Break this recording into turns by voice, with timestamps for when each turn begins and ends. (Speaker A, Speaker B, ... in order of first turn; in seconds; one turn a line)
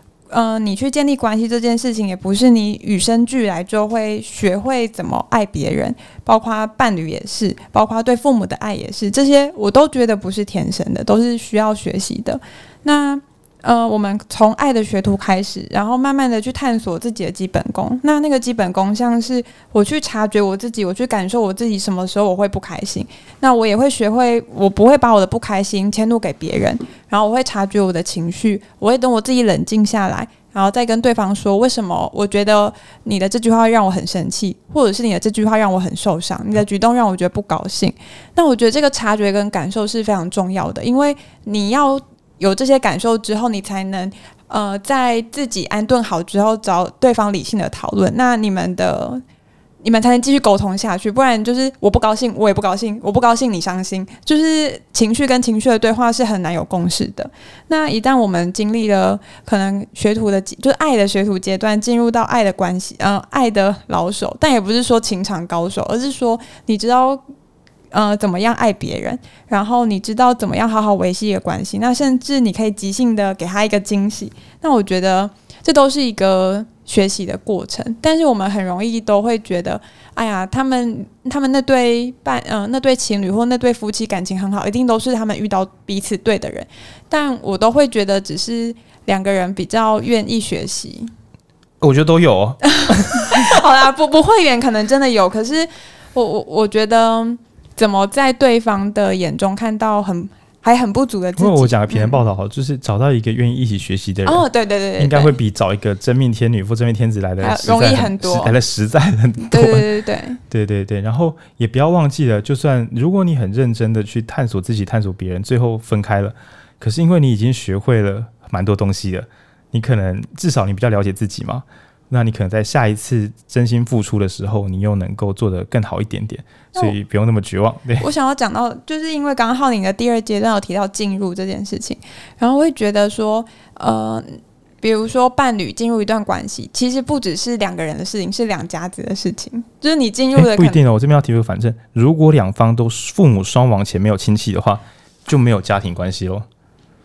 Speaker A: 0.3-49.2
Speaker A: 49.8-67.2
Speaker A: 67.9-91.1
Speaker B: 91.8-93.5
Speaker A: 92.7-102.2
Speaker B: 101.4-104.4
Speaker A: 104.2-105.3
Speaker B: 105.0-109.9
Speaker A: 107.4-108.5
Speaker A: 109.5-110.4
Speaker B: 110.5-128.1
Speaker A: 128.0-140.8
Speaker B: 140.3-146.5